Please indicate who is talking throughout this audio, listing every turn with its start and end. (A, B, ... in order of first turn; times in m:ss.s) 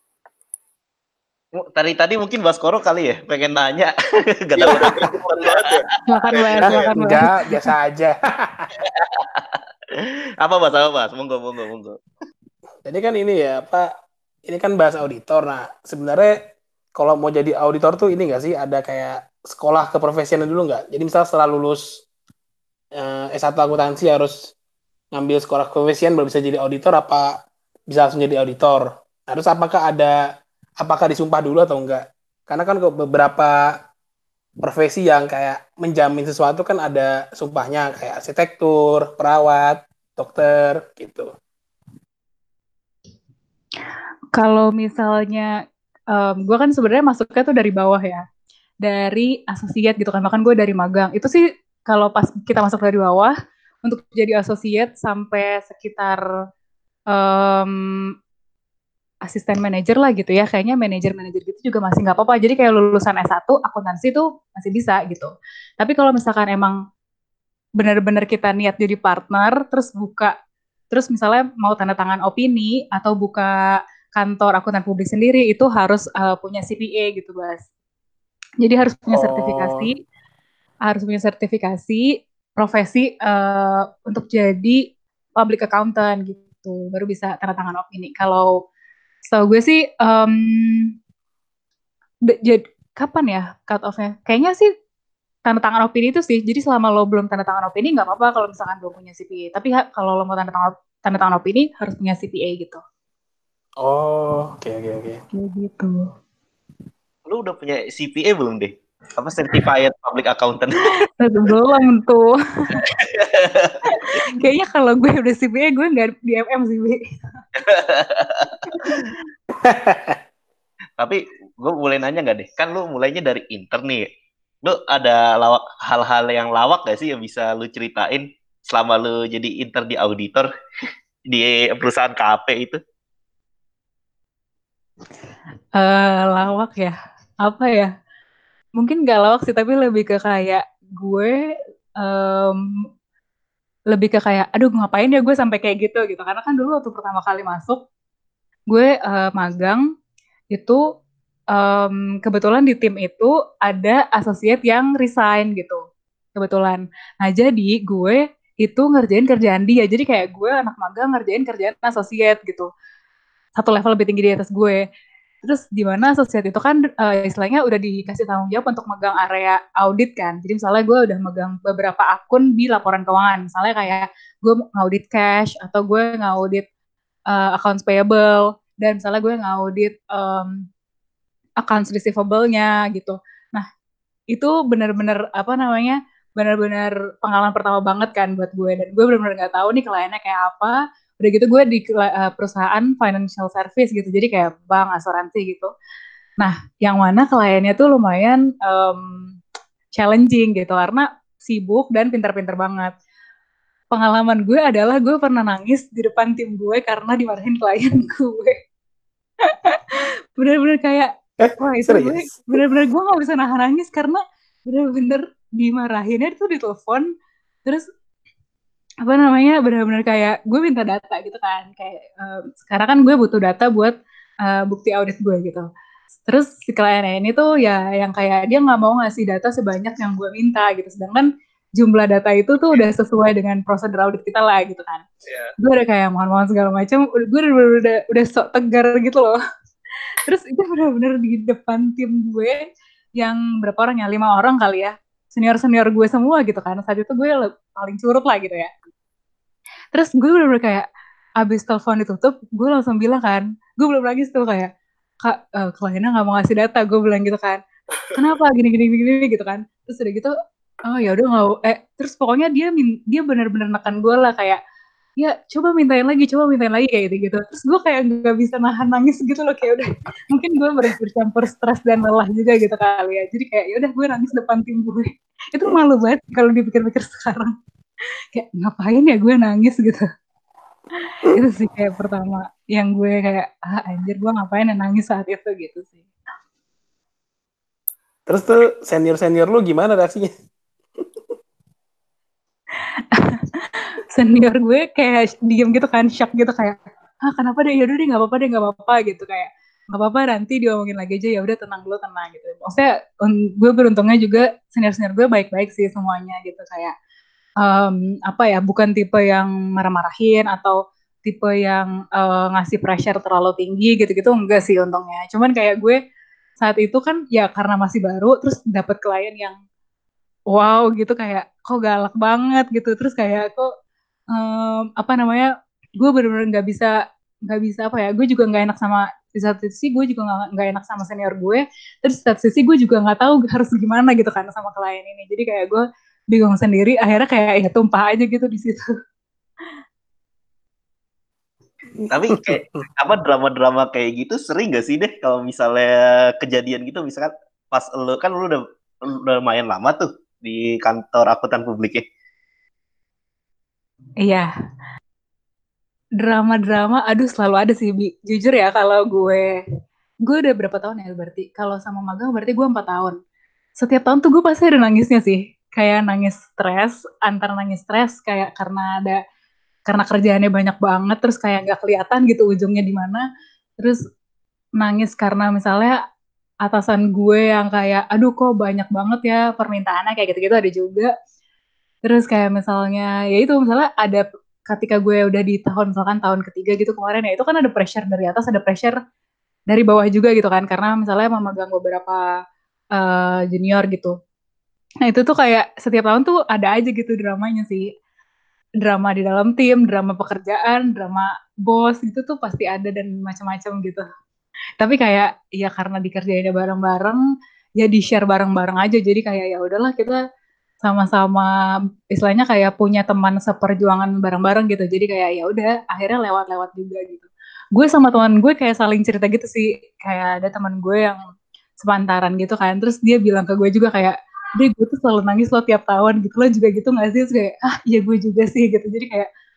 0:01.6-0:05.8 A
0:04.5-0:07.0 B
0:06.0-0:07.6 C
0:07.0-0:08.7 D
0:08.8-0:12.0 A
0:12.8-0:13.9 D
0:14.4-0:16.4 D
0:16.9-0:22.0 D
0:22.9-0:24.5 D
0:25.1-0:30.2 D
0:30.8-0:33.8 D
0:34.6-0:41.3 D
0:44.3-0:45.5 C
0:46.1-0:48.2 C
0:48.8-0:56.2 C
0:57.1-0:58.1 C
0:59.2-1:06.8 C
1:07.8-1:10.3 C
1:10.9-1:17.6 C
1:18.6-1:20.0 C
1:19.1-1:19.9 D
1:20.8-1:24.8 C
1:25.4-1:28.5 C
1:29.2-1:30.9 C
1:32.3-1:34.7 C
1:35.5-1:42.8 C
1:43.8-1:45.2 D
1:45.3-1:46.1 C
1:47.2-1:50.9 A
1:51.0-1:52.9 C
1:52.9-1:54.2 A
1:53.9-1:57.0 C
1:57.5-1:59.1 A
1:58.7-1:59.0 C
1:59.6-2:00.2 D
2:01.0-2:04.1 A
2:04.6-2:10.5 A
2:11.3-2:12.8 A
2:15.8-2:17.9 C
2:18.8-2:21.4 C
2:22.0-2:22.6 C
2:23.9-2:27.8 C
2:28.7-2:29.8 C
2:30.5-2:30.8 C
2:31.5-2:35.8 C
2:36.4-2:42.7 C
2:43.6-2:44.8 C
2:45.4-2:56.6 C
2:57.3-3:00.6 C
3:01.6-3:03.6 C
3:04.3-3:15.7 C
3:16.4-3:19.3 C
3:20.0-3:22.9 C
3:23.9-3:28.6 C
3:29.4-3:37.1 C
3:31.4-3:32.6 D
3:39.0-3:45.7 C
3:46.3-3:55.0 C
3:55.3-3:55.5 B
3:55.6-3:59.4 C
4:00.2-4:02.6 C
4:03.2-4:08.7 C
4:09.9-4:10.9 C
4:11.4-4:14.7 C
4:15.2-4:17.6 C
4:18.1-4:20.3 C
4:20.9-4:24.6 C
4:25.2-4:37.5 C
4:38.3-4:40.0 C
4:41.3-4:46.0 C
4:48.3-4:50.3 D
4:53.1-4:53.4 C
4:54.1-5:06.9 C
5:07.6-5:16.0 C
5:16.6-5:19.6 C
5:20.5-5:23.7 C
5:24.3-5:26.9 C
5:27.5-5:38.9 C
5:42.0-5:42.8 D
5:42.1-5:52.0 A
5:54.2-5:54.5 C
5:56.2-5:59.6 C
6:00.2-6:03.2 C
6:03.8-6:09.2 C
6:09.9-6:13.2 C
6:14.8-6:16.0 C
6:16.6-6:21.1 C
6:22.0-6:29.0 C
6:29.7-6:32.3 C
6:32.9-6:34.1 C
6:35.0-6:37.9 C
6:38.8-6:44.1 C
6:44.8-6:47.2 C
6:47.8-6:50.2 C
6:50.8-6:51.5 C
6:52.1-7:01.2 C
7:01.8-7:09.3 C